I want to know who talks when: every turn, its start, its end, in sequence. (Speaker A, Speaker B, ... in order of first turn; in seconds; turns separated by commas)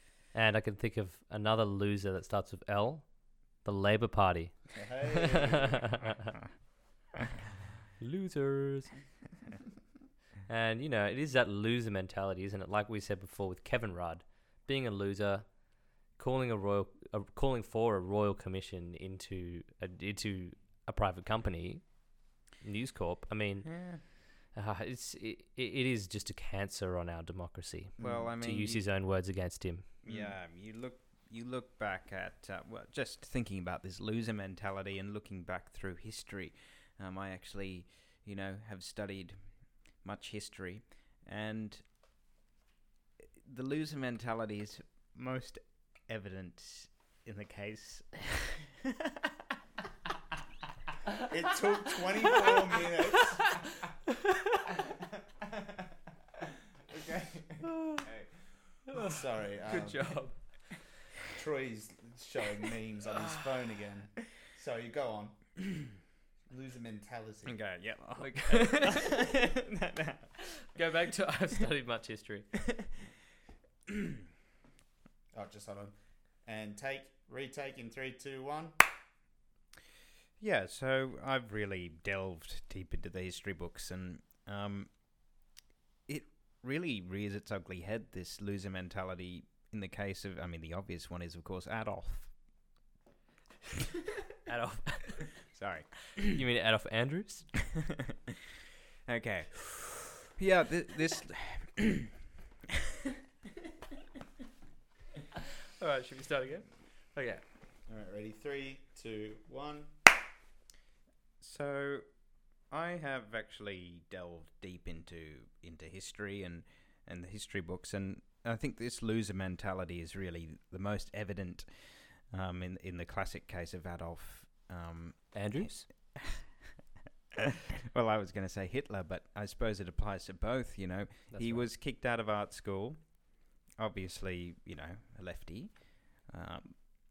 Speaker A: 0.3-6.2, Speaker B: 4.7-6.0, Speaker A: 8.0-8.9, Speaker A: 10.5-29.9, Speaker C: 23.6-24.0, Speaker B: 28.0-28.3, Speaker C: 28.0-28.9, Speaker C: 30.0-41.9, Speaker B: 30.1-30.4, Speaker C: 43.4-48.7, Speaker B: 51.2-53.6, Speaker C: 56.9-58.3, Speaker A: 58.9-60.7, Speaker B: 58.9-60.3, Speaker B: 61.3-65.8, Speaker B: 66.5-67.7, Speaker C: 67.5-70.4, Speaker A: 68.2-69.1, Speaker A: 70.6-72.5, Speaker B: 75.3-78.8, Speaker C: 80.4-84.9, Speaker C: 86.1-92.5, Speaker A: 94.4-95.4, Speaker C: 95.3-96.4, Speaker A: 96.2-97.6, Speaker C: 99.1-102.1, Speaker A: 105.8-107.4, Speaker B: 107.9-110.0, Speaker C: 111.4-126.7, Speaker A: 125.3-125.9, Speaker C: 127.9-136.7, Speaker A: 131.3-131.7